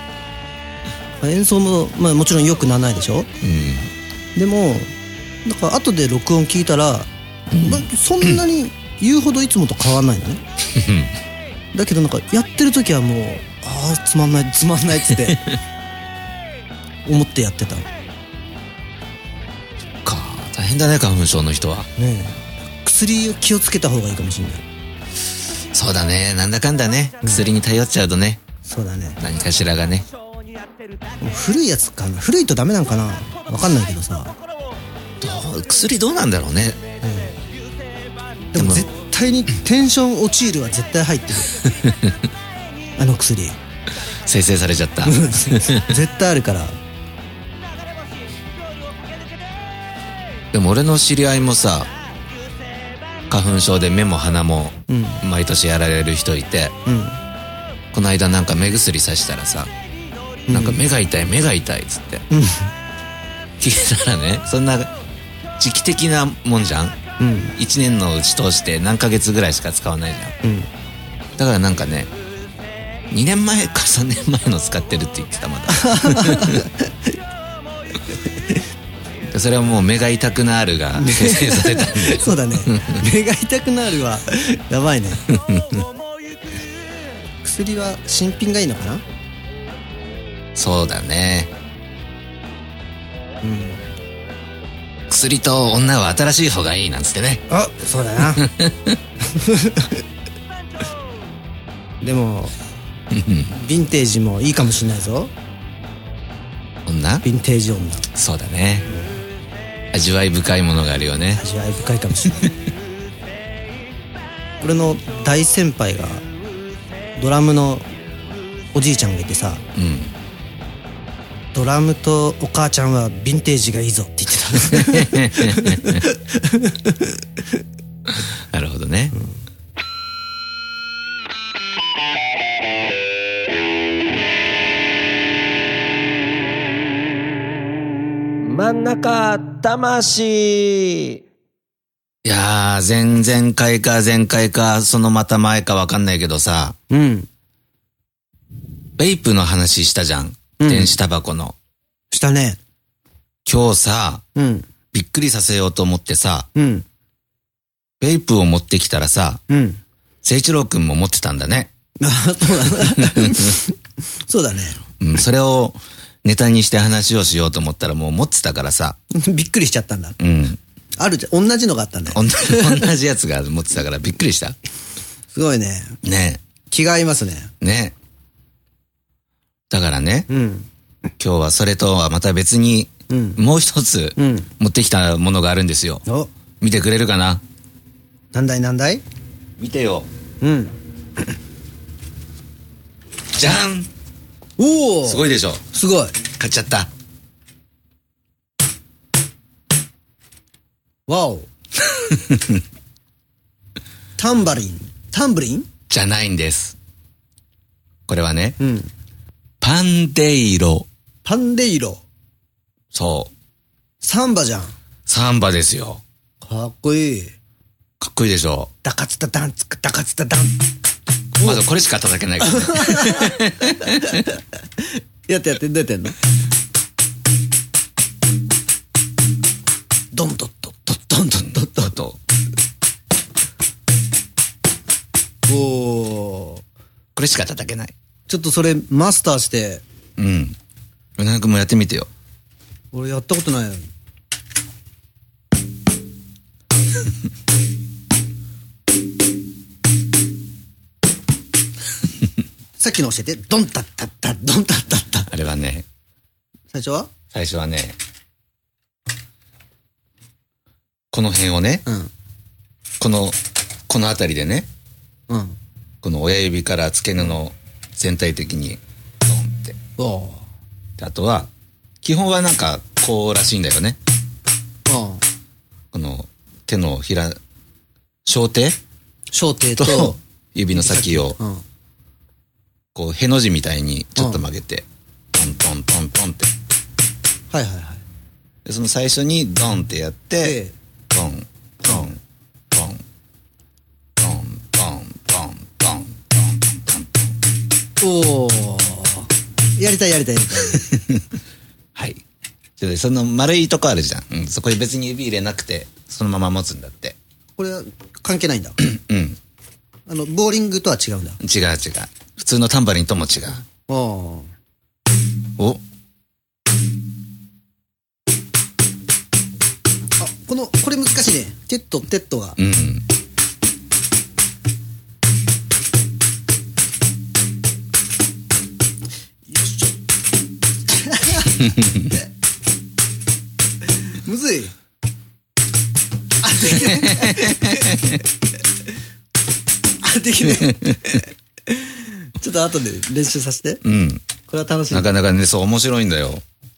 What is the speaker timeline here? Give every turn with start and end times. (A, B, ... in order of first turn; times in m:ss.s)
0:01.2-0:03.3 A
0:03.4-0:03.9 B
0:04.4-0:04.9 A
0:05.4-0:10.4 A
0:07.5-0:08.4 B
0:10.7-0:11.2 B
0:11.7-0:15.5 A
0:17.0-0:17.9 A
0:20.0-0:21.9 B
0:22.0-0:24.6 A
0:25.7-0:28.4 B
0:28.7-0:29.2 A
0:29.2-0:30.1 B
0:31.2-0:34.4 A
0:35.2-0:36.8 B
0:37.0-0:37.4 A
0:38.5-0:41.5 A
0:38.5-0:38.9 B
0:41.6-0:42.2 B
0:43.0-0:43.6 A
0:44.3-0:46.0 B
0:45.0-0:46.8 A
0:50.5-0:51.9 B
0:53.3-0:56.7 B
0:54.9-0:55.2 A
0:56.9-0:57.2 A
0:57.9-0:59.7 B
1:00.5-1:00.8 A
1:00.5-1:02.2 B
1:02.3-1:02.7 A
1:03.6-1:04.9 B
1:05.6-1:07.0 B
1:07.2-1:07.6 A
1:07.6-1:10.4 B
1:10.4-1:10.7 A
1:11.4-1:12.1 B
1:13.1-1:16.6 B
1:15.7-1:17.2 A
1:19.3-1:23.0 B
1:21.0-1:25.2 A
1:25.3-1:25.8 B
1:27.4-1:29.0 A
1:30.6-1:31.5 B
1:33.4-1:33.8 A
1:35.1-1:37.4 B
1:37.5-1:38.5 A
1:38.3-1:39.0 B
1:39.3-1:40.0 A
1:42.0-1:42.5 A
1:43.1-1:43.5 B
1:43.5-1:45.3 A
1:46.9-1:47.2 B
1:47.2-1:48.1 A
1:48.1-1:48.9 B
1:49.9-1:51.4 B
1:51.4-1:52.5 A
1:54.6-1:56.2 A
1:57.2-1:57.9 A
1:58.7-1:59.6 A
1:59.8-2:00.1 B
2:01.5-2:07.2 A
2:04.5-2:06.0 B
2:08.1-2:09.2 B
2:18.4-2:21.2 C
2:22.2-2:26.8 B
2:26.9-2:27.3 A
2:29.0-2:31.6 B
2:30.6-2:31.0 A
2:32.1-2:32.6 A
2:33.5-2:34.2 B
2:34.4-2:34.7 A
2:34.9-2:36.5 B
2:36.6-2:36.8 A
2:38.0-2:39.4 B
2:39.5-2:39.8 A
2:40.2-2:41.7 B
2:42.0-2:44.8 A
2:42.8-2:43.6 B
2:45.0-2:49.0 B
2:49.1-2:50.2 A
2:50.2-2:50.6 B
2:51.0-2:52.9 A
2:52.1-2:54.6 B
2:55.3-2:56.0 A
2:56.0-2:56.4 B
2:56.7-2:57.5 A
2:57.6-2:57.9 B
2:59.7-3:00.3 B
3:00.3-3:00.7 A
3:01.2-3:06.0 B
3:03.1-3:03.4 A
3:04.2-3:04.5 A
3:06.6-3:07.4 B
3:08.3-3:09.0 A
3:09.6-3:10.1 B
3:10.4-3:10.8 A
3:13.3-3:13.9 B
3:14.6-3:16.2 A
3:15.1-3:15.6 B
3:16.4-3:16.9 B
3:21.1-3:21.5 A
3:22.0-3:22.6 B
3:24.2-3:25.7 A
3:25.9-3:26.8 B
3:28.1-3:28.6 B
3:28.6-3:28.9 A
3:29.6-3:30.9 B
3:31.2-3:32.0 A
3:32.9-3:33.3 B
3:34.0-3:34.8 A
3:35.1-3:36.0 B
3:36.4-3:37.4 A
3:38.0-3:38.7 B
3:38.8-3:40.6 A
3:41.4-3:41.6 A
3:41.4-3:44.2 B
3:42.4-3:44.3 A
3:45.3-3:46.2 A
3:50.1-3:52.0 A
3:51.4-3:52.2 B
3:55.5-3:56.6 A
3:57.2-3:57.9 B
3:58.3-3:59.8 A
4:00.2-4:00.6 B
4:01.2-4:02.1 B
4:02.9-4:03.9 A
4:12.8-4:15.3 A
4:15.3-4:15.9 B
4:16.7-4:17.1 A
4:17.3-4:18.0 B
4:21.1-4:21.8 B
4:23.0-4:23.4 B
4:23.9-4:24.7 B
4:25.3-4:25.6 A
4:26.0-4:29.8 B
4:30.0-4:30.5 A
4:31.0-4:31.5 B
4:32.0-4:34.0 B
4:34.9-4:35.2 A
4:35.9-4:37.4 B
4:38.2-4:38.8 B
4:39.3-4:40.2 A
4:39.8-4:41.4 B
4:40.7-4:41.6 A
4:43.0-4:46.5 B
4:44.2-4:44.4 A
4:47.5-4:48.0 A
4:48.6-4:50.6 B
4:50.4-4:50.7 A
4:51.1-4:52.2 B
4:52.7-4:53.0 B
4:54.2-4:57.3 B
4:58.0-5:00.9 A
5:00.7-5:01.2 B
5:02.0-5:02.2 B
5:02.8-5:07.2 B
5:07.6-5:08.8 A
5:08.8-5:09.4 B
5:10.1-5:11.4 A
5:11.4-5:13.6 B
5:13.9-5:14.5 A
5:20.2-5:22.6 A
5:22.6-5:23.0 B
5:29.5-5:30.0 A
5:30.9-5:31.7 A
5:31.6-5:32.1 B
5:34.2-5:34.7 A
5:36.4-5:38.2 A
5:36.7-5:38.2 B
5:40.0-5:43.8 A
5:40.5-5:41.0 B
5:43.8-5:44.2 B
5:44.5-5:45.1 A
5:44.9-5:46.4 B